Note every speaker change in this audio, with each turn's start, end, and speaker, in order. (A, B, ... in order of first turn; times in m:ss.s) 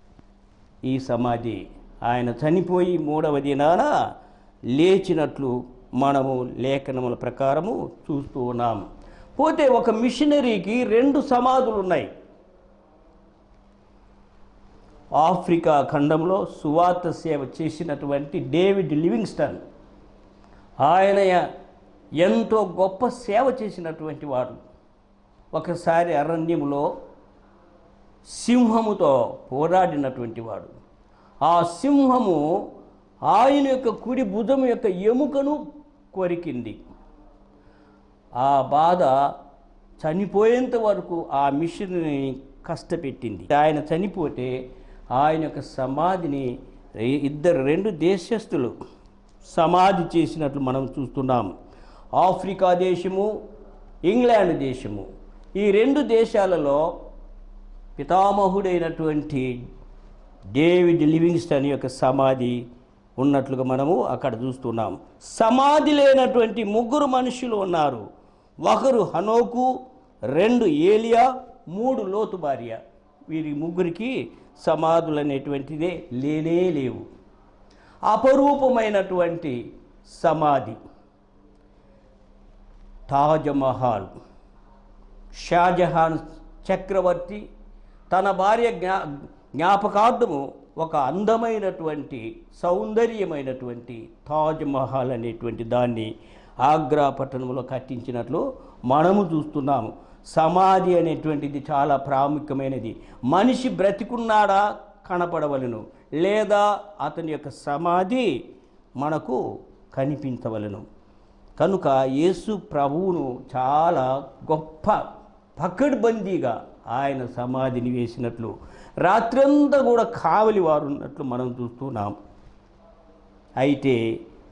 0:00.8-0:03.9 A
0:04.7-0:08.8 A
0:09.4-0:12.1 A
0:15.2-0:19.6 A
0:20.8-0:21.4 A
0:22.2-0:24.6 A
0:25.5-0:26.8 A
0:28.3-0:30.7 A
0:31.4-0:32.4 A
0:33.3-0:35.6 A
0:36.1-0:36.8 A
0:38.4-0:39.1 A
0:40.0-0:44.5 A
0:45.1-0:46.5 A
0:47.0-0:48.7 A
0:49.5-0:51.5 A
0:52.2-0:53.3 A
0:54.1-0:55.0 A
0:55.6-0:56.8 A
0:58.0-0:59.5 A
1:00.5-1:02.6 A
1:03.2-1:08.0 A
1:08.6-1:09.7 A
1:10.3-1:12.8 A
1:13.3-1:17.0 A
1:18.1-1:19.6 A
1:20.1-1:20.8 A
1:23.1-1:24.1 A
1:25.4-1:27.4 A
1:28.1-1:29.0 A
1:29.6-1:36.1 A
1:36.6-1:48.3 A
1:49.0-1:49.4 A
1:49.9-1:50.8 A
1:51.6-1:55.0 A
1:55.6-2:02.1 A
2:03.6-2:04.0 A